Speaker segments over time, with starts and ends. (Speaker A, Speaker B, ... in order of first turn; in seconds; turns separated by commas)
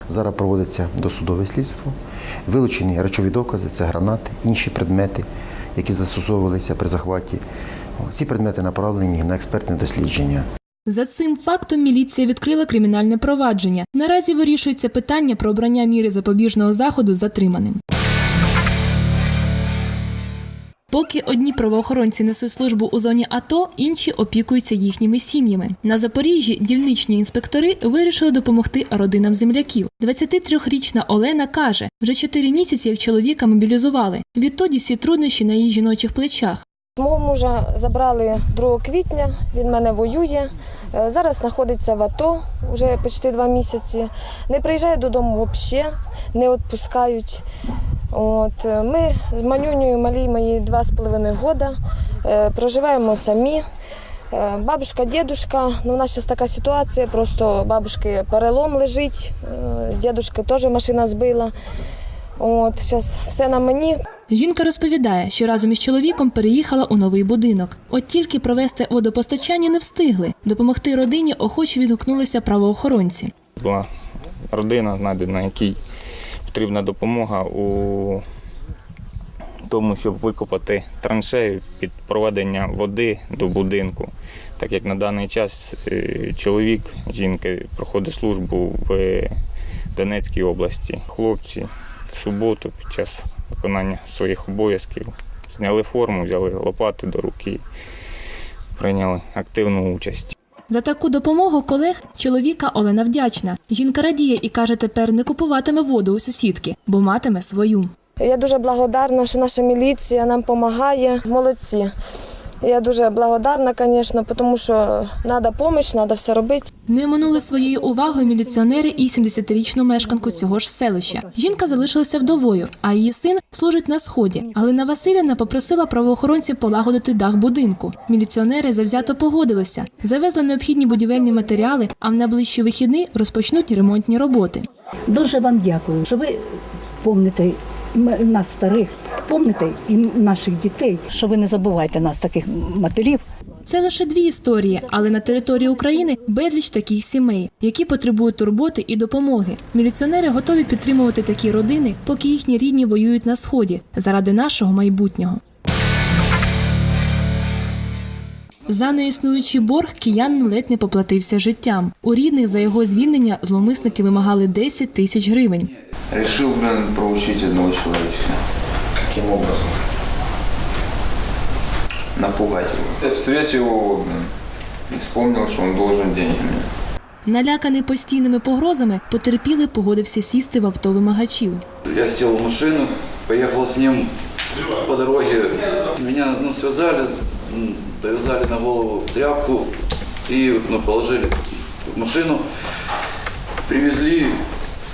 Speaker A: 0.1-1.9, Speaker A: 2.5-5.2, Speaker A: 5.8-7.4, Speaker A: 8.0-10.4, Speaker B: 10.9-17.8, Speaker B: 20.9-36.6, Speaker C: 37.0-47.4, Speaker C: 48.1-53.6, Speaker C: 54.3-61.5, Speaker C: 62.4-64.0, Speaker B: 64.3-73.3, Speaker D: 73.6-73.9, Speaker D: 74.5-75.8, Speaker D: 76.5-78.2, Speaker D: 79.7-89.3, Speaker D: 90.0-97.6, Speaker D: 98.8-100.3, Speaker B: 100.7-107.9, Speaker C: 108.2-111.9, Speaker C: 112.6-116.7, Speaker B: 116.9-134.7, Speaker E: 135.1-136.3, Speaker E: 137.0-143.2, Speaker B: 143.7-155.4, Speaker B: 158.7-165.7, Speaker F: 166.1-168.4, Speaker A: 169.2-169.6, Speaker F: 172.2-174.3, Speaker F: 174.9-176.7, Speaker B: 177.2-181.6, Speaker G: 181.9-184.1, Speaker G: 184.6-189.7, Speaker G: 190.3-192.4, Speaker G: 193.7-194.4